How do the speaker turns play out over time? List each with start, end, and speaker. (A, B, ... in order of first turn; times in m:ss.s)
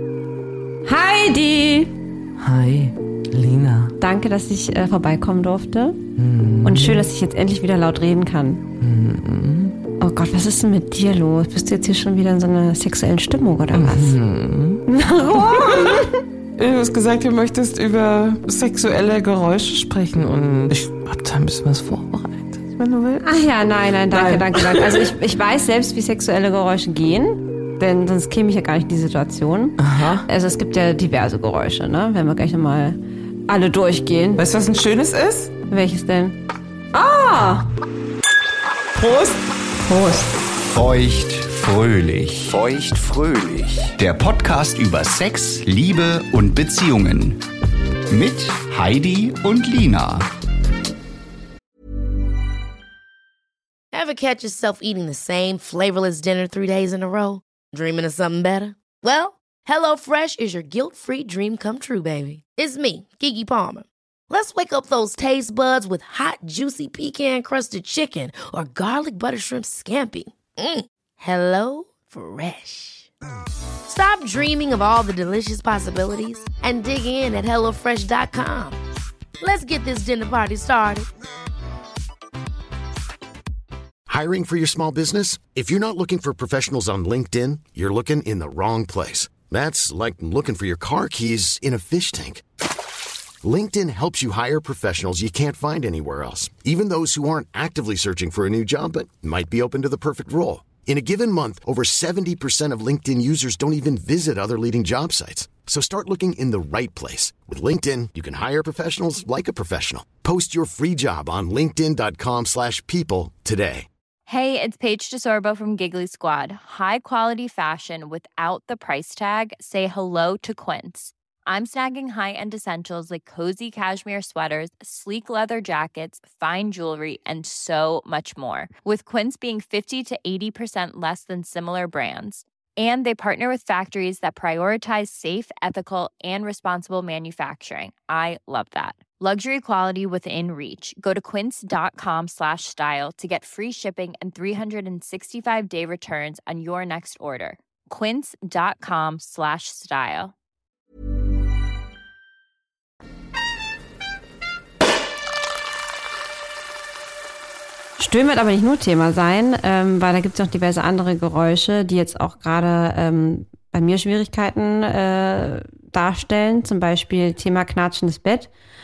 0:00.9-0:01.9 A
0:02.4-0:04.0 B
0:04.0-0:06.0 A
0:06.2-0:07.1 B
0:06.6-0:08.6 A
0:08.8-0:09.8 B
0:10.0-0:14.2 A
0:13.7-0:16.0 B
0:14.9-0:16.2 A
0:16.6-0:23.4 B
0:23.2-0:34.4 A
0:24.1-0:25.1 B
0:29.8-0:30.3 B
0:34.4-0:35.5 B
0:35.7-0:36.4 A
0:36.9-0:37.7 A
0:38.9-0:40.4 B
0:40.6-0:47.4 C
0:48.1-0:50.3 C
0:53.9-1:13.1 D
1:13.9-1:18.8 D
1:19.4-1:21.1 D
1:24.1-1:32.4 E
1:33.4-1:53.9 E
1:54.3-2:30.3 F
2:38.0-2:48.5 A